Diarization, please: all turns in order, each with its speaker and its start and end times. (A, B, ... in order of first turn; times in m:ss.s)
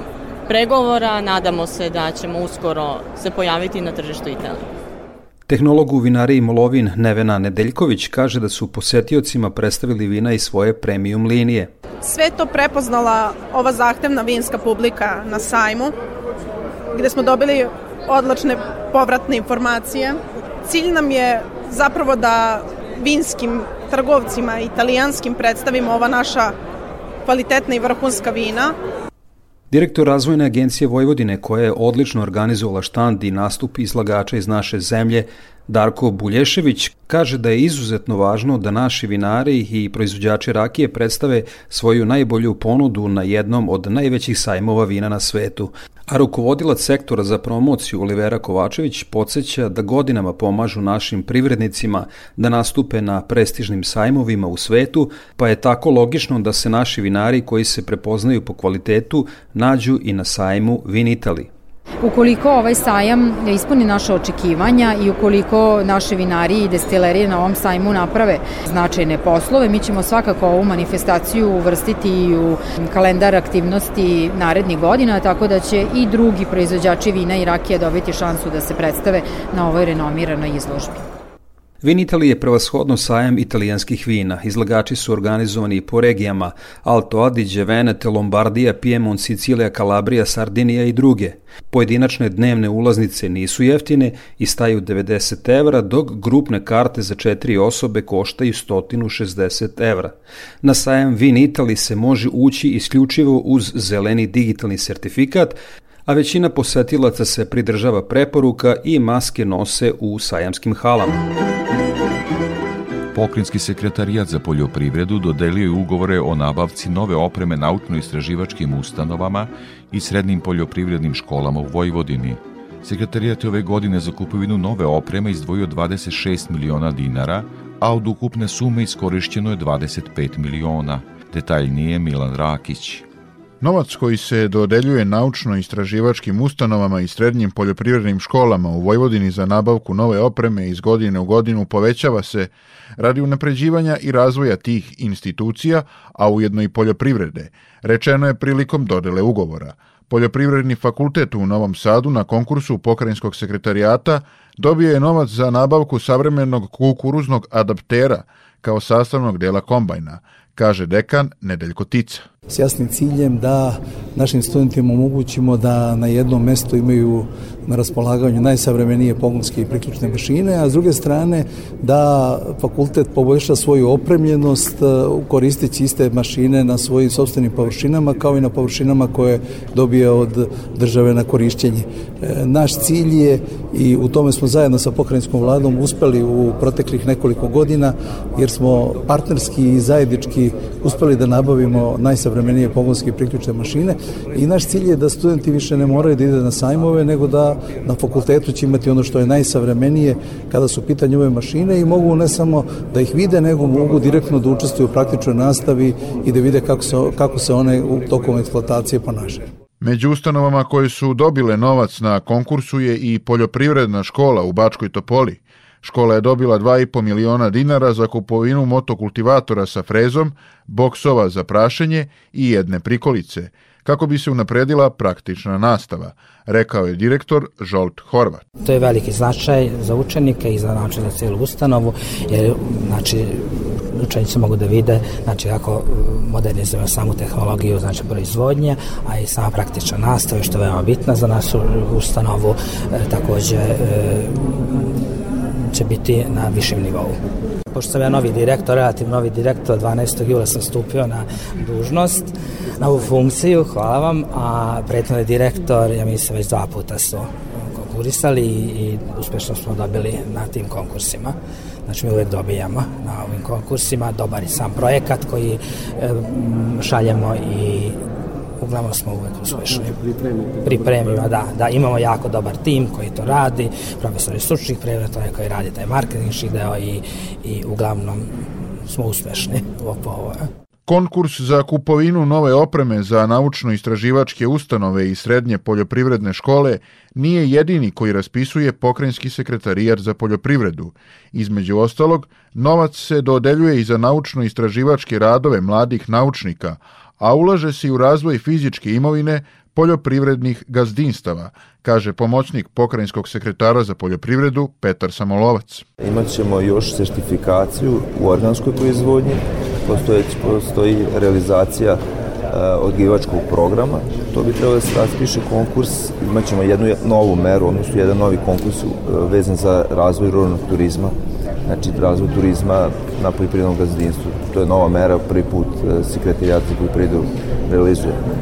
0:00.5-0:04.6 A
0:05.5-0:11.7 B
0:12.0-0:15.9 C
0:16.9-0:26.5 C
0:27.2-0:28.7 C
0:29.7-1:01.5 B
1:02.0-1:21.0 D
1:21.8-1:51.2 B
1:53.1-2:13.0 E
2:13.6-2:42.2 F
2:42.5-3:29.5 G
3:29.8-3:48.4 F
3:48.6-4:07.2 H
4:07.7-4:28.0 H
4:28.6-4:30.0 H
4:30.6-4:40.5 H
4:40.9-5:05.8 F
5:06.0-5:21.1 I
5:21.7-5:28.2 I